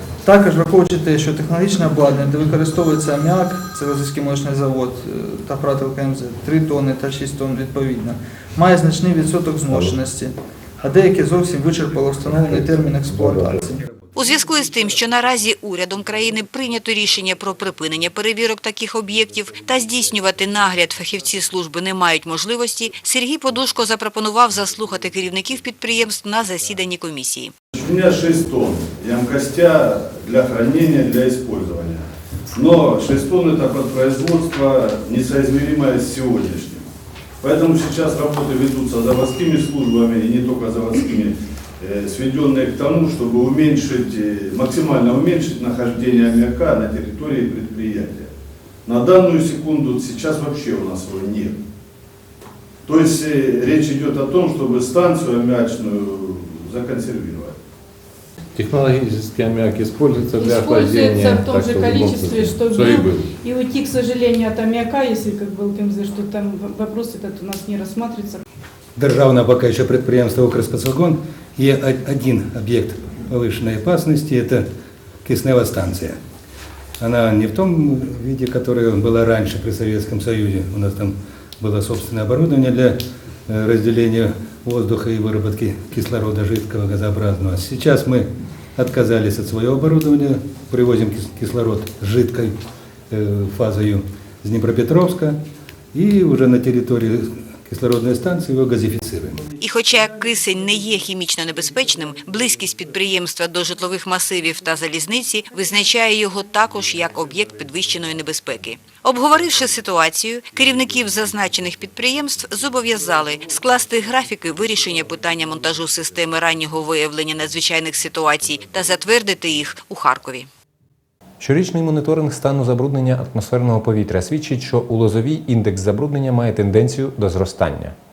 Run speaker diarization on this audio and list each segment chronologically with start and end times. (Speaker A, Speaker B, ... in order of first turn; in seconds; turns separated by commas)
Speaker A: 0.2-13.8, Speaker B: 9.7-10.0, Speaker B: 12.4-13.6, Speaker C: 14.1-27.5, Speaker D: 27.7-36.9, Speaker D: 37.4-48.3, Speaker D: 48.9-51.6, Speaker D: 52.8-57.5, Speaker B: 58.5-63.3, Speaker E: 60.4-68.4, Speaker F: 69.0-74.7, Speaker F: 75.2-76.2, Speaker F: 77.0-92.5, Speaker F: 93.1-95.4, Speaker F: 95.9-99.4, Speaker C: 99.6-120.5, Speaker G: 121.4-128.0